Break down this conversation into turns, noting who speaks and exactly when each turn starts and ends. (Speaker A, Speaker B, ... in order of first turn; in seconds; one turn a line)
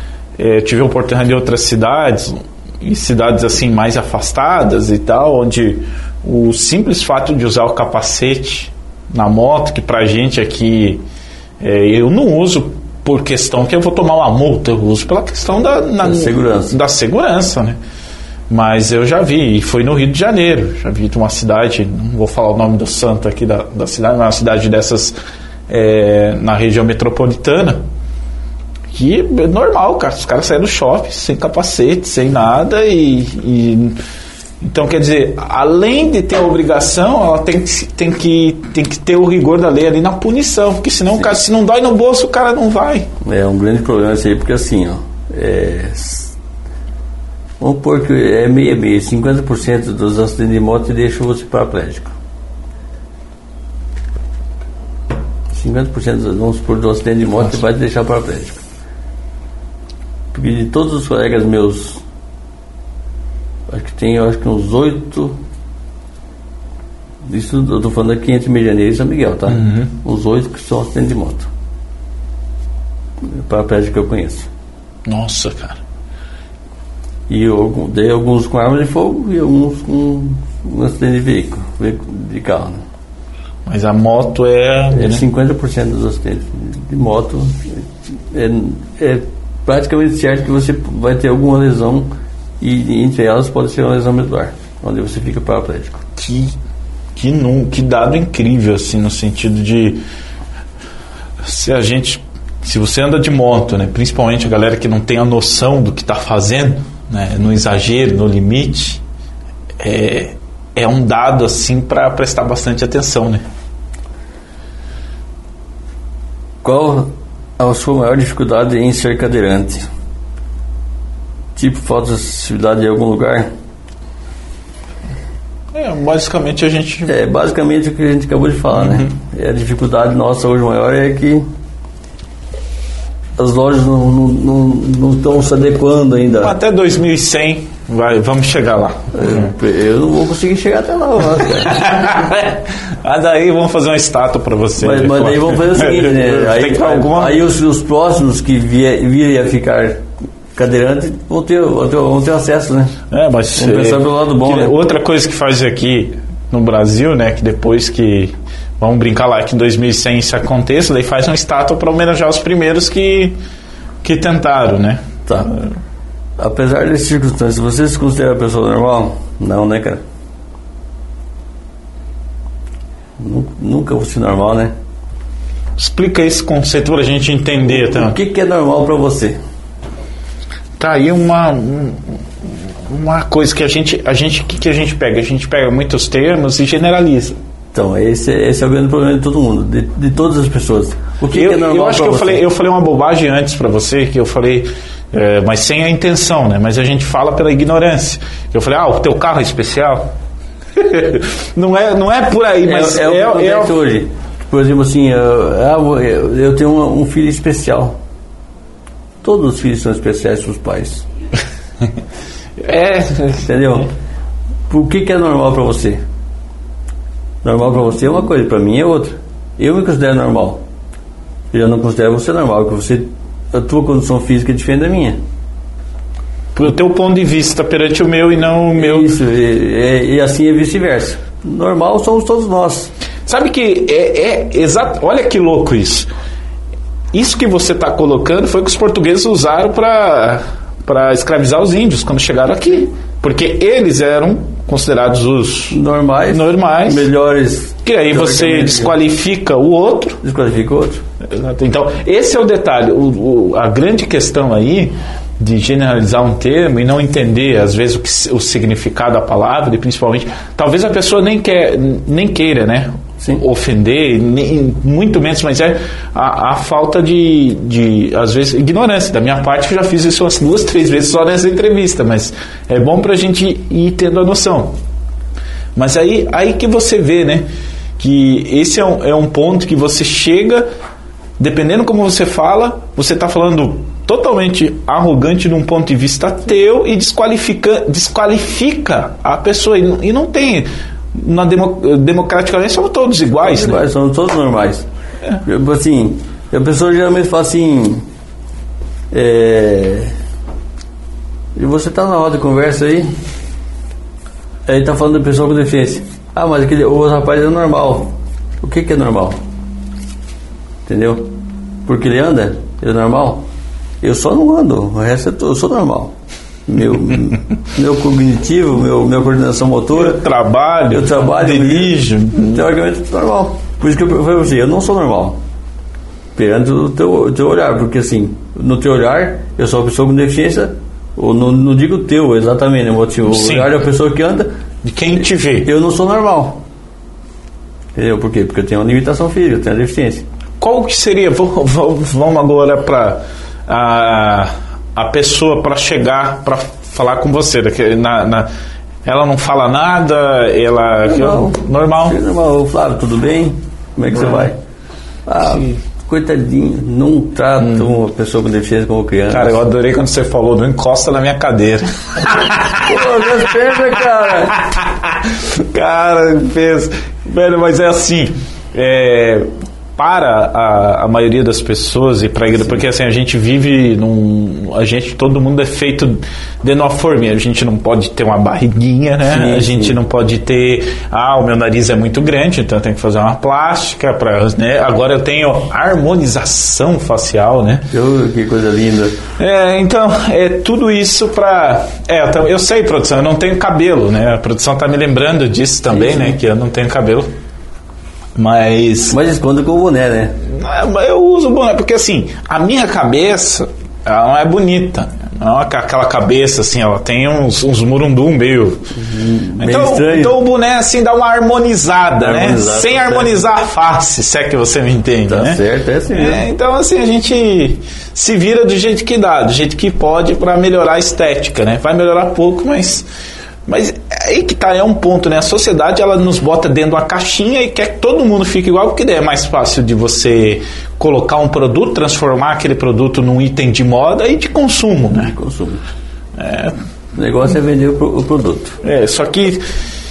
Speaker A: 0.4-11.0
Speaker A: 11.6-17.8
Speaker B: 16.0-16.8
Speaker A: 18.5-25.1
Speaker A: 25.7-27.8
Speaker A: 28.9-34.0
Speaker A: 34.6-43.1
Speaker B: 43.2-46.4
Speaker B: 47.6-52.1
Speaker B: 55.5-58.6
Speaker B: 60.3-62.0
Speaker B: 63.7-65.4
Speaker B: 67.3-71.5
Speaker A: 69.5-69.9
Speaker B: 73.2-74.5
Speaker A: 75.1-75.8
Speaker B: 77.3-82.8
Speaker A: 83.7-85.2
Speaker B: 84.9-92.1
Speaker B: 92.6-96.0
Speaker A: 96.2-96.5
Speaker A: 97.2-100.0
Speaker A: 101.4-109.0
Speaker A: 109.8-113.4
Speaker B: 116.6-119.9
Speaker B: 121.6-123.5
Speaker A: 125.7-127.1
Speaker B: 127.1-131.5
Speaker A: 128.8-129.1
Speaker B: 133.4-136.6
Speaker A: 136.4-139.4
Speaker B: 139.1-141.9
Speaker A: 141.6-147.4
Speaker B: 144.8-150.0
Speaker B: 150.6-153.0
Speaker A: 153.1-163.4
Speaker B: 153.6-154.8
Speaker A: 164.0-165.7
Speaker B: 165.3-165.6
Speaker B: 166.4-170.0
Speaker B: 173.2-174.7
Speaker A: 175.8-178.2
Speaker B: 177.7-179.4
Speaker A: 180.8-187.4
Speaker B: 187.7-192.4
Speaker A: 191.3-200.1
Speaker A: 200.8-203.8
Speaker B: 202.7-208.0
Speaker B: 209.2-211.1
Speaker A: 212.6-213.5
Speaker B: 213.4-213.9
Speaker B: 214.7-216.0
Speaker B: 217.4-220.6
Speaker B: 221.5-225.2
Speaker A: 226.6-229.1
Speaker B: 228.7-232.9
Speaker A: 233.3-236.1
Speaker A: 237.1-247.1
Speaker B: 245.7-249.0
Speaker A: 247.8-250.2
Speaker B: 250.2-251.0
Speaker A: 251.2-274.7
Speaker A: 275.8-277.5
Speaker A: 278.0-280.7
Speaker A: 281.4-293.8
Speaker B: 293.4-294.9
Speaker B: 295.4-298.1
Speaker B: 299.1-300.1
Speaker B: 301.6-303.1
Speaker B: 304.7-309.4
Speaker B: 310.9-311.3
Speaker B: 311.9-313.4
Speaker B: 314.0-316.1
Speaker B: 316.7-320.2
Speaker A: 319.9-322.6
Speaker B: 320.9-325.4
Speaker B: 326.4-334.5
Speaker A: 333.3-333.7
Speaker A: 334.8-335.7
Speaker B: 335.6-336.6
Speaker B: 338.0-340.2
Speaker A: 340.6-348.5
Speaker A: 349.1-352.2
Speaker B: 351.1-354.6
Speaker B: 355.3-359.6
Speaker A: 359.3-363.3
Speaker B: 362.8-364.6
Speaker A: 364.3-387.9
Speaker B: 379.3-380.0
Speaker B: 387.9-389.2
Speaker A: 389.4-397.3
Speaker B: 395.9-396.4
Speaker A: 398.4-399.2
Speaker B: 399.1-400.4
Speaker A: 400.4-408.9
Speaker B: 409.0-410.4
Speaker A: 409.6-415.6
Speaker B: 412.2-413.4
Speaker B: 415.3-416.4
Speaker A: 416.1-423.1
Speaker A: 423.7-435.3
Speaker B: 435.1-435.8
Speaker A: 436.4-436.8
Speaker B: 437.1-438.8
Speaker A: 438.8-439.6